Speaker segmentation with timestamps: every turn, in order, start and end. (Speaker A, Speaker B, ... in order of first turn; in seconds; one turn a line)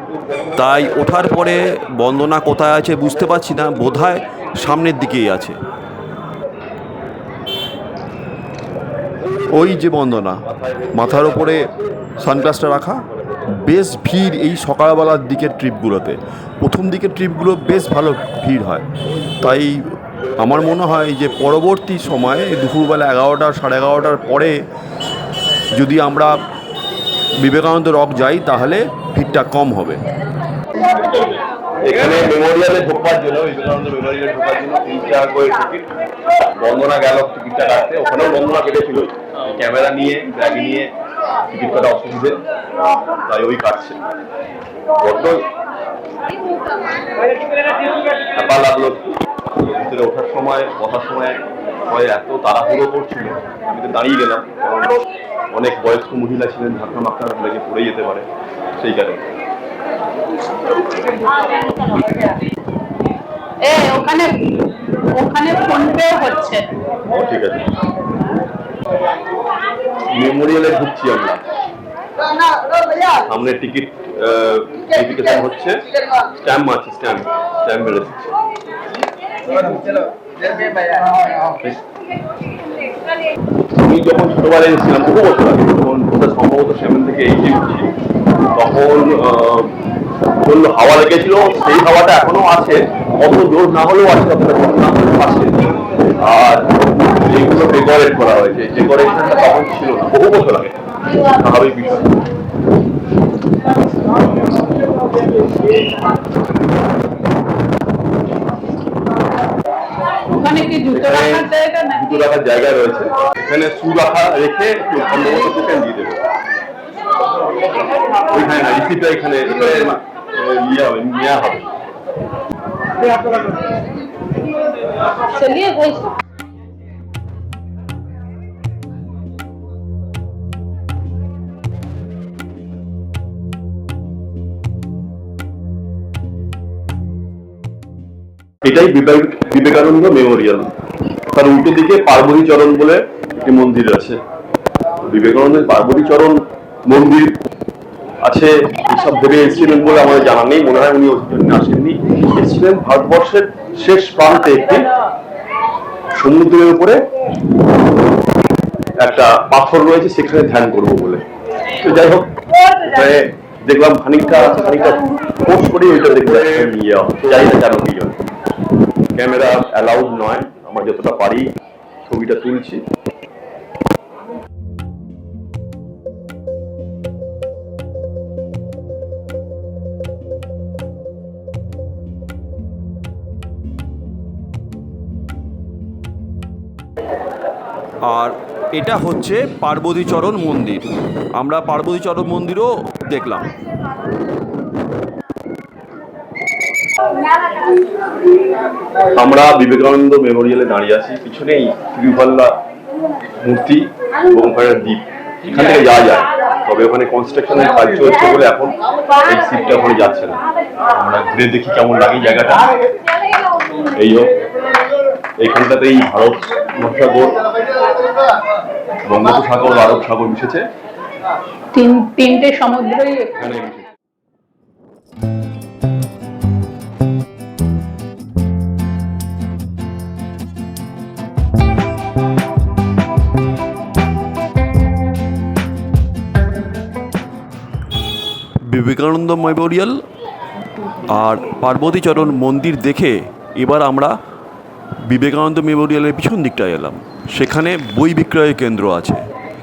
Speaker A: 0.6-5.5
Speaker A: 9.5-10.4
Speaker B: 10.5-12.9
Speaker A: 10.9-11.6
Speaker A: 12.2-13.0
Speaker A: 13.7-18.9
Speaker B: 19.4-19.7
Speaker B: 20.4-22.2
Speaker A: 21.4-24.4
Speaker A: 25.8-26.3
Speaker A: 27.4-29.0
Speaker B: 29.0-29.6
Speaker A: 29.6-30.0
Speaker B: 31.8-35.9
Speaker B: 36.5-40.9
Speaker B: 41.5-42.4
Speaker B: 43.2-44.0
Speaker B: 45.0-45.5
Speaker B: 48.4-59.3
Speaker C: 63.7-64.3
Speaker C: 65.2-66.7
Speaker B: 67.1-67.7
Speaker B: 70.1-71.4
Speaker B: 73.2-75.8
Speaker B: 76.4-78.3
Speaker B: 83.8-87.9
Speaker B: 88.5-89.7
Speaker B: 90.4-95.7
Speaker B: 96.2-102.1
Speaker C: 110.3-112.2
Speaker B: 110.9-116.2
Speaker B: 118.2-121.7
Speaker C: 125.2-126.2
Speaker B: 138.6-140.7
Speaker B: 141.3-144.2
Speaker B: 145.0-147.3
Speaker B: 148.2-154.9
Speaker B: 156.2-157.0
Speaker B: 159.0-161.2
Speaker B: 161.8-168.2
Speaker B: 169.2-171.5
Speaker B: 172.1-172.8
Speaker A: 188.1-190.9
Speaker A: 191.4-193.5
Speaker B: 199.2-202.6
Speaker B: 203.4-210.4
Speaker B: 210.9-212.7
Speaker B: 213.9-214.3
Speaker B: 215.4-217.4
Speaker B: 219.1-220.7
Speaker C: 221.7-223.4
Speaker B: 223.4-223.9
Speaker A: 238.7-239.5
Speaker B: 238.8-239.9
Speaker A: 241.1-243.1
Speaker B: 243.6-244.0
Speaker A: 245.1-245.7
Speaker B: 245.2-246.8
Speaker A: 246.6-249.2